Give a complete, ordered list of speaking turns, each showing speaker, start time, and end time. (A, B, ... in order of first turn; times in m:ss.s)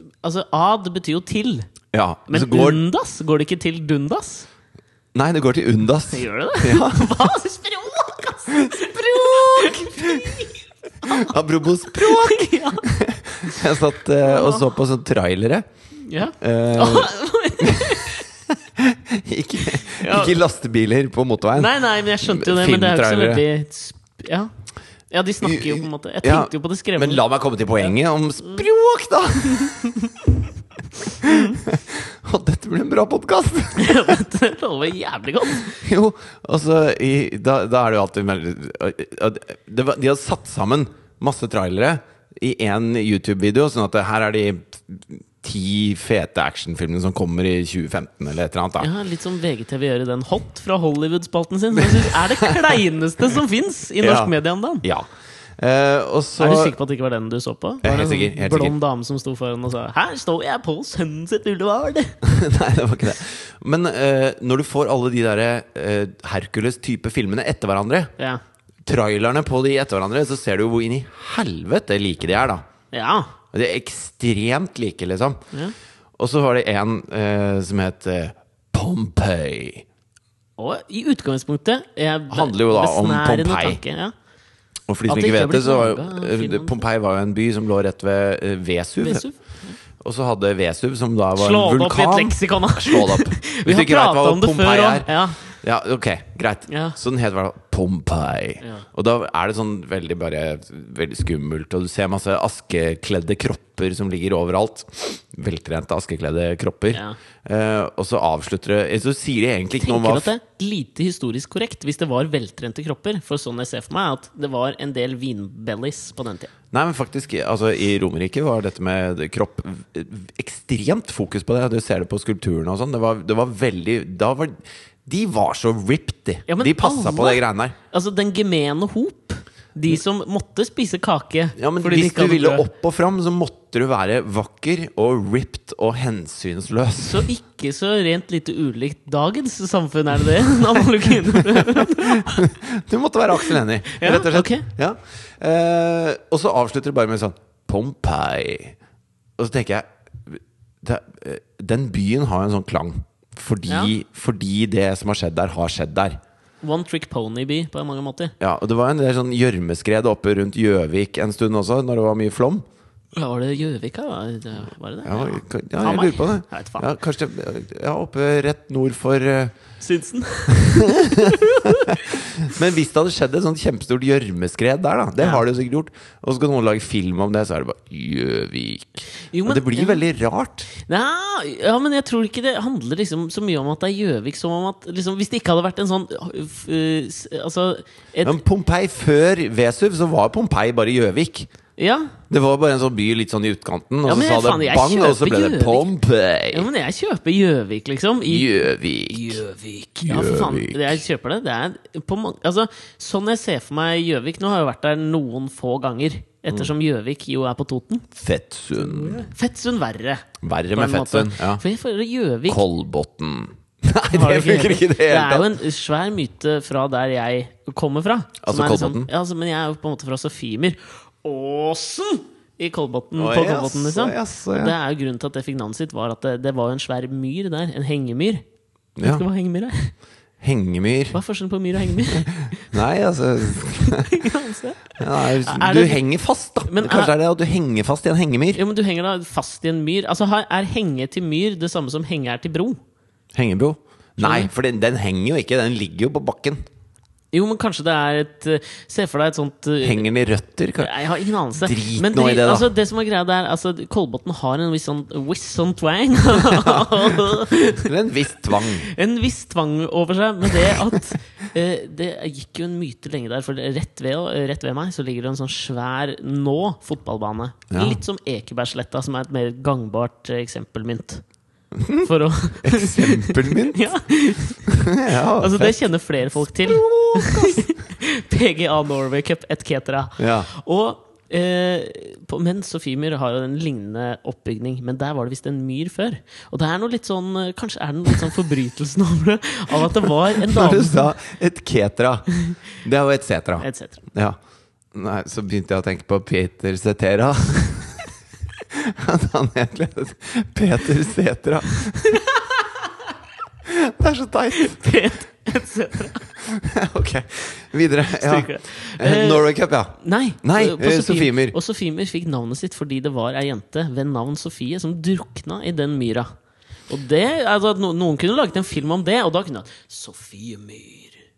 0:00.2-0:01.7 A
0:01.9-0:02.8 B
0:02.3-0:04.5 A
0:05.1-0:07.3 B
0:06.1-0:11.4 A
0:08.5-0:10.4 B
0:11.1-0:15.7 B
0:11.9-0:12.9 A
0:14.2-0:14.6 A
0:16.1-0:18.2 A
0:16.4-0:18.1 B
0:18.8-0:23.5 B
0:19.9-0:20.3 A
0:21.6-0:24.5 A
0:25.1-0:27.2 A
0:25.4-0:29.8 B
0:31.2-0:34.2 B
0:31.2-0:31.6 A
0:33.8-0:35.8 A
0:35.7-0:48.9 B
0:48.8-0:54.8 A
0:51.8-0:52.5 B
0:54.0-0:56.8 B
0:56.4-1:02.2 A
0:57.8-0:58.8 B
1:02.2-1:08.1 B
1:08.8-1:12.7 B
1:12.9-1:13.3 A
1:13.5-1:15.5 B
1:16.2-1:19.8 B
1:20.6-1:24.1 A
1:22.3-1:23.8 B
1:24.9-1:29.2 B
1:25.1-1:26.8 A
1:29.0-1:29.8 A
1:30.0-1:50.3 B
1:31.4-1:35.5 A
1:36.7-1:37.0 A
1:49.8-1:56.5 A
1:56.7-2:07.8 B
2:06.5-2:12.6 A
2:11.6-2:17.2 B
2:17.0-2:22.4 A
2:21.6-2:28.8 B
2:23.5-2:24.7 A
2:29.4-2:36.2 B
2:33.7-2:33.9 A
2:36.6-2:38.4 A
2:38.4-2:42.6 B
2:43.1-2:46.8 A
2:45.0-2:49.6 B
2:49.8-2:51.8 A
2:50.9-2:51.3 B
2:52.0-3:00.7 B
2:59.3-3:00.0 A
3:00.7-3:08.4 A
3:08.2-3:11.5 B
3:11.8-3:12.1 A
3:12.3-3:16.7 B
3:14.0-3:15.9 A
3:16.5-3:28.1 A
3:18.3-3:19.4 B
3:20.1-3:21.0 B
3:28.2-3:29.3 B
3:28.8-3:32.6 A
3:30.4-3:31.6 B
3:32.5-3:35.5 B
3:34.1-3:48.4 A
3:38.4-3:39.1 B
3:43.2-3:44.8 B
3:49.0-3:49.2 B
3:49.0-3:49.9 A
3:50.4-3:51.2 B
3:51.1-3:52.7 A
3:52.0-3:54.2 B
3:53.8-3:56.0 A
3:55.0-3:58.6 B
3:56.6-3:57.1 A
3:58.6-4:02.8 A
4:03.3-4:06.6 B
4:04.2-4:04.5 A
4:07.3-4:10.1 A
4:09.8-4:10.9 B
4:10.8-4:17.9 A
4:11.6-4:12.7 B
4:16.5-4:16.8 B
4:17.8-4:18.9 B
4:18.6-4:31.2 A
4:27.7-4:28.0 B
4:31.8-4:34.0 B
4:32.0-4:51.1 A
4:34.7-4:37.6 B
4:40.2-4:40.5 B
4:50.4-4:54.4 B
4:53.6-4:54.0 A
4:54.9-4:58.1 B
4:58.7-5:02.2 B
5:03.7-5:04.9 B
5:04.6-5:06.3 A
5:06.4-5:11.6 B
5:08.2-5:16.3 A
5:16.9-5:21.2 A